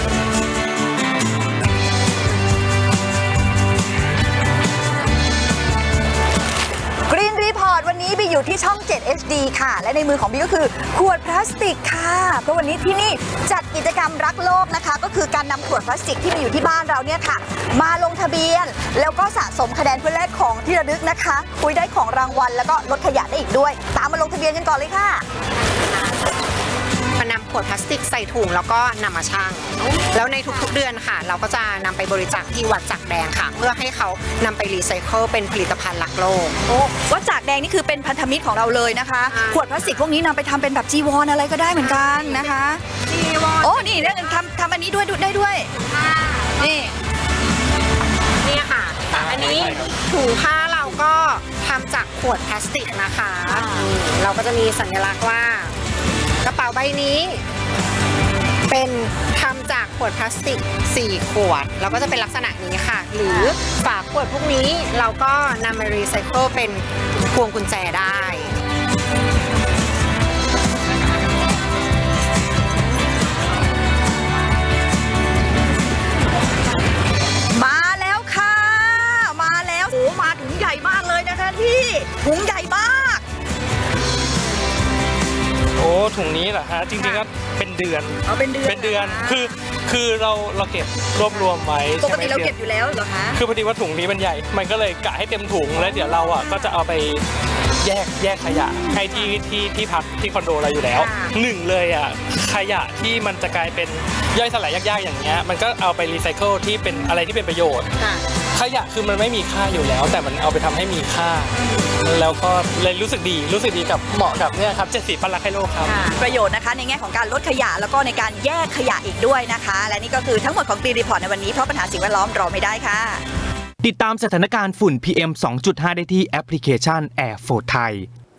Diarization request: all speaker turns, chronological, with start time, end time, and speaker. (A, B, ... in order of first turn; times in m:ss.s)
0:07.1-0:25.2 A
0:27.2-0:36.8 B
0:36.8-0:42.8 A
0:39.3-0:40.0 B
0:41.8-0:44.4 B
0:43.6-0:45.7 A
0:45.9-0:46.6 B
0:46.6-0:46.9 A
0:48.4-0:55.7 B
0:49.1-0:49.9 C
0:56.4-0:57.4 B
0:58.7-1:08.5 B
1:17.5-1:23.2 A
1:25.8-1:32.5 C
1:27.0-1:27.2 A
1:28.2-1:29.5 A
1:32.0-1:33.4 A
1:33.3-1:37.2 C
1:37.8-1:47.9 C
1:40.9-1:41.3 B
1:48.0-1:48.2 B
1:48.5-1:56.0 C
1:55.8-1:56.2 B
1:56.1-2:03.2 A
2:03.8-2:08.1 D